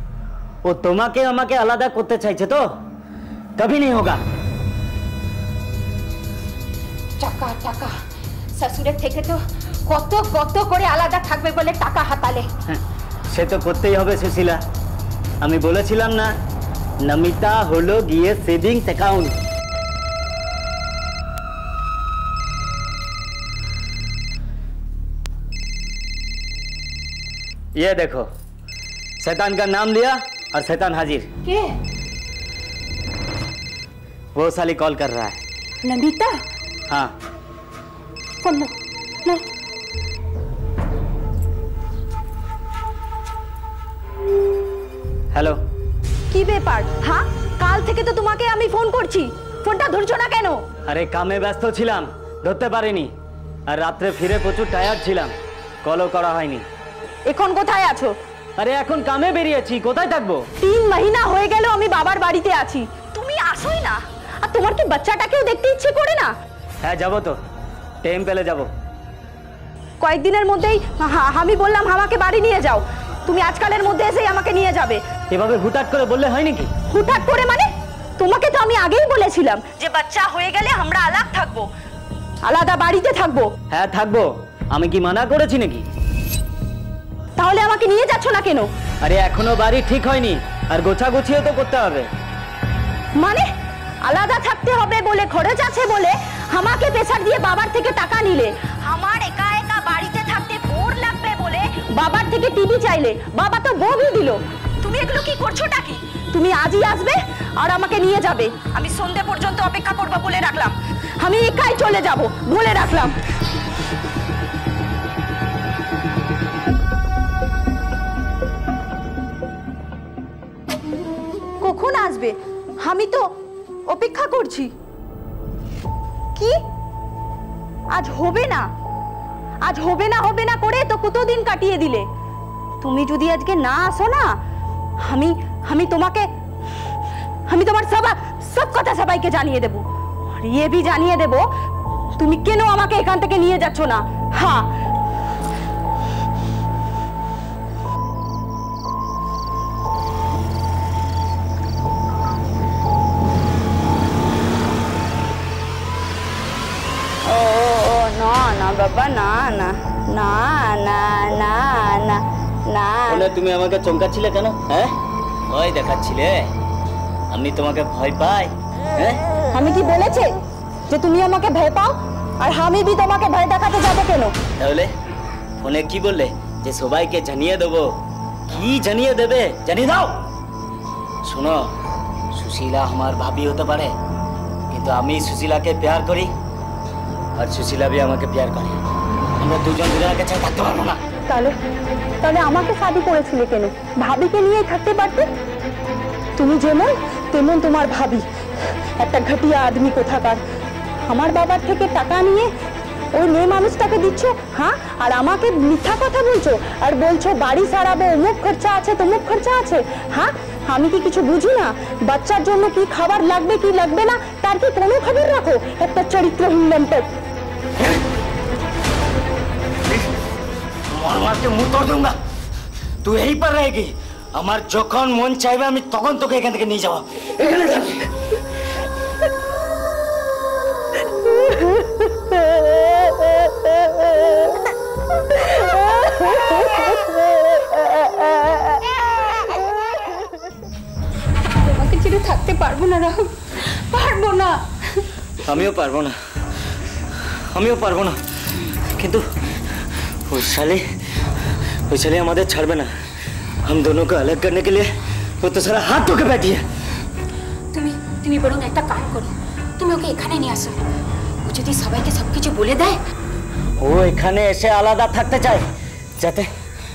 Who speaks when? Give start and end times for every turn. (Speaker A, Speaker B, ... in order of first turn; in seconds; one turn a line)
Speaker A: 0.6-2.6
Speaker A: 3.6-4.2
Speaker B: 7.2-7.9
Speaker B: 8.6-12.5
Speaker A: 12.7-14.6
Speaker A: 15.4-16.3
Speaker A: 17.0-19.3
Speaker A: 27.8-28.3
Speaker A: 29.2-31.3
Speaker A: 34.4-35.4
Speaker A: 45.3-45.6
Speaker C: 46.3-50.6
Speaker A: 50.8-53.1
Speaker A: 53.7-56.6
Speaker C: 57.2-58.1
Speaker A: 58.6-60.5
Speaker C: 60.6-66.3
Speaker A: 66.8-67.4
Speaker A: 68.0-68.7
Speaker C: 70.0-75.0
Speaker A: 75.3-76.7
Speaker C: 76.9-81.7
Speaker C: 82.4-83.5
Speaker A: 83.7-85.8
Speaker C: 87.4-88.7
Speaker A: 89.0-92.1
Speaker C: 93.2-93.5
Speaker C: 94.0-113.2
Speaker C: 121.6-123.3
Speaker C: 123.9-124.7
Speaker C: 127.9-128.7
Speaker C: 129.6-132.1
Speaker C: 132.8-134.4
Speaker C: 135.0-136.3
Speaker C: 137.5-139.8
Speaker C: 140.4-141.4
Speaker C: 142.2-144.7
Speaker C: 157.2-163.2
Speaker A: 163.1-164.9
Speaker A: 165.5-166.5
Speaker A: 167.3-169.2
Speaker C: 169.5-170.3
Speaker C: 170.9-174.3
Speaker A: 174.6-174.9
Speaker A: 175.6-177.9
Speaker A: 178.5-180.2
Speaker A: 181.2-181.7
Speaker A: 182.3-183.9
Speaker A: 184.7-186.3
Speaker A: 187.3-188.8
Speaker A: 189.4-191.0
Speaker C: 191.3-191.5
Speaker C: 192.2-195.3
Speaker C: 196.4-198.3
Speaker C: 199.0-200.4
Speaker C: 201.1-202.5
Speaker C: 203.1-217.1
Speaker A: 220.9-222.2
Speaker A: 223.0-228.1
Speaker B: 241.6-244.6
Speaker A: 245.4-246.1
Speaker A: 247.5-248.2
Speaker A: 248.9-249.2
Speaker A: 250.2-250.8
Speaker A: 251.9-252.9
Speaker A: 253.6-256.6
Speaker B: 257.7-260.8
Speaker B: 261.4-263.0
Speaker A: 263.8-265.6
Speaker A: 266.2-266.5